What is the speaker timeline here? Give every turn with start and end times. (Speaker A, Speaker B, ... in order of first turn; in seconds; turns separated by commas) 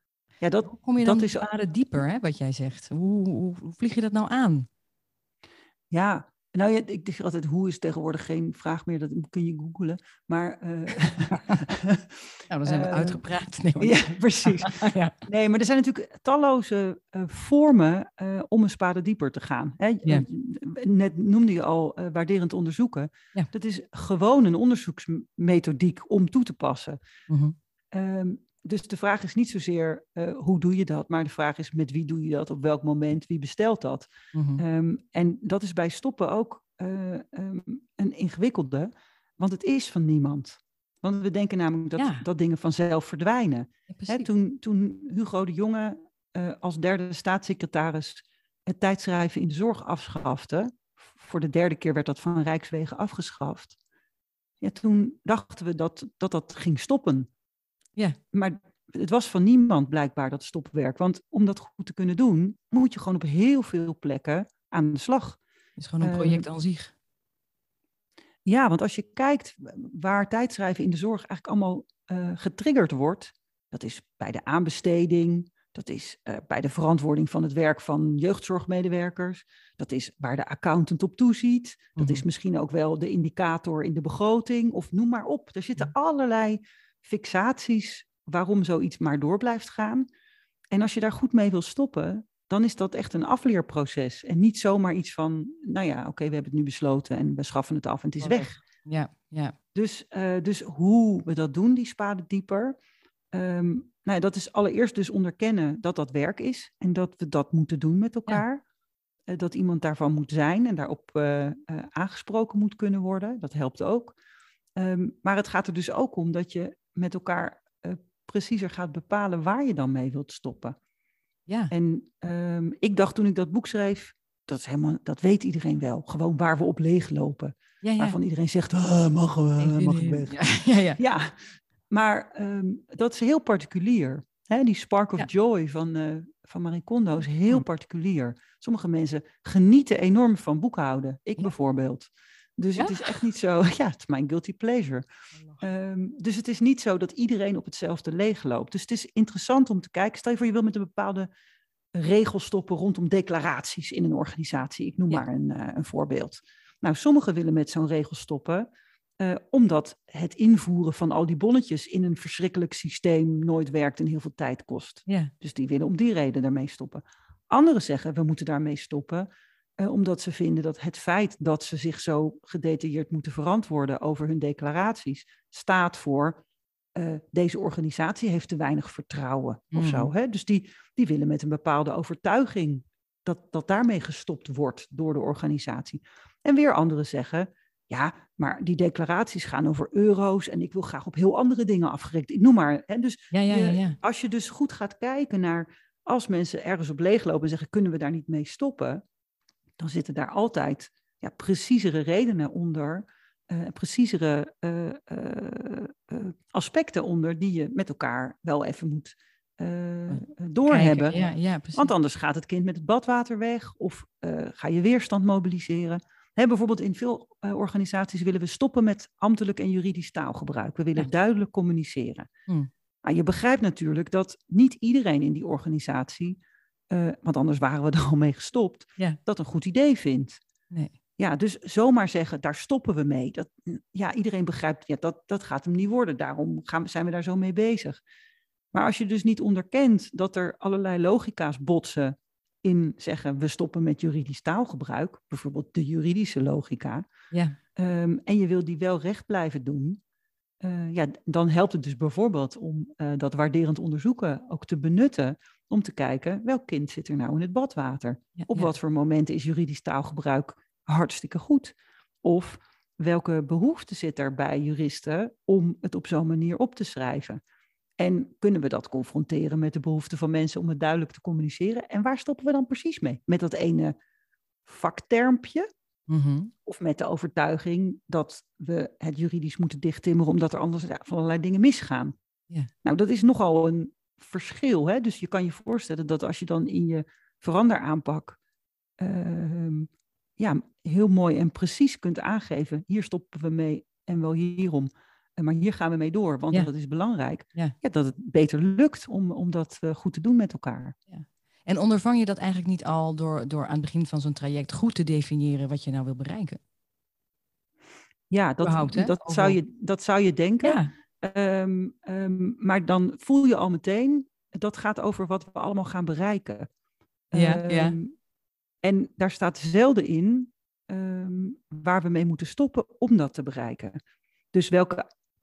Speaker A: 0.4-1.5, Speaker B: 0.7-4.7, Speaker A: 5.9-13.2, Speaker B: 11.0-11.6, Speaker B: 12.5-15.2, Speaker A: 13.8-27.0, Speaker B: 27.3-27.6, Speaker A: 27.9-53.8, Speaker B: 34.3-34.6, Speaker B: 42.0-42.2, Speaker B: 43.9-44.3, Speaker A: 54.6-57.3, Speaker A: 58.3-65.4, Speaker B: 65.8-66.9, Speaker A: 66.0-66.5, Speaker A: 68.5-90.1, Speaker B: 82.0-82.2, Speaker A: 90.7-98.6, Speaker B: 98.2-99.6, Speaker A: 99.8-102.8, Speaker A: 103.3-108.6, Speaker A: 109.3-114.2, Speaker A: 114.8-120.8, Speaker B: 121.5-121.7, Speaker A: 121.7-130.4, Speaker B: 127.8-128.2, Speaker B: 129.6-131.0, Speaker A: 131.0-145.0, Speaker B: 142.8-143.0, Speaker A: 145.6-151.3, Speaker A: 151.9-158.7, Speaker A: 159.2-169.3, Speaker B: 165.1-165.3, Speaker A: 169.8-176.4, Speaker A: 177.0-199.0, Speaker B: 179.7-180.1, Speaker B: 193.3-194.0, Speaker A: 199.8-211.2, Speaker B: 210.1-211.9, Speaker A: 211.8-222.3, Speaker A: 223.0-226.4, Speaker A: 226.9-230.4, Speaker A: 231.2-238.0, Speaker A: 238.7-247.1, Speaker B: 247.3-247.6, Speaker A: 247.8-250.0, Speaker A: 250.6-267.4, Speaker B: 258.4-258.7, Speaker A: 268.0-273.9, Speaker A: 274.6-275.7, Speaker B: 276.1-276.5, Speaker A: 276.6-282.1, Speaker A: 282.8-288.4, Speaker A: 289.0-301.0, Speaker B: 301.1-306.6, Speaker A: 308.3-316.7, Speaker B: 308.6-309.6, Speaker B: 310.6-310.9, Speaker A: 317.3-318.1, Speaker B: 317.3-318.0, Speaker A: 318.8-324.0, Speaker A: 324.5-325.1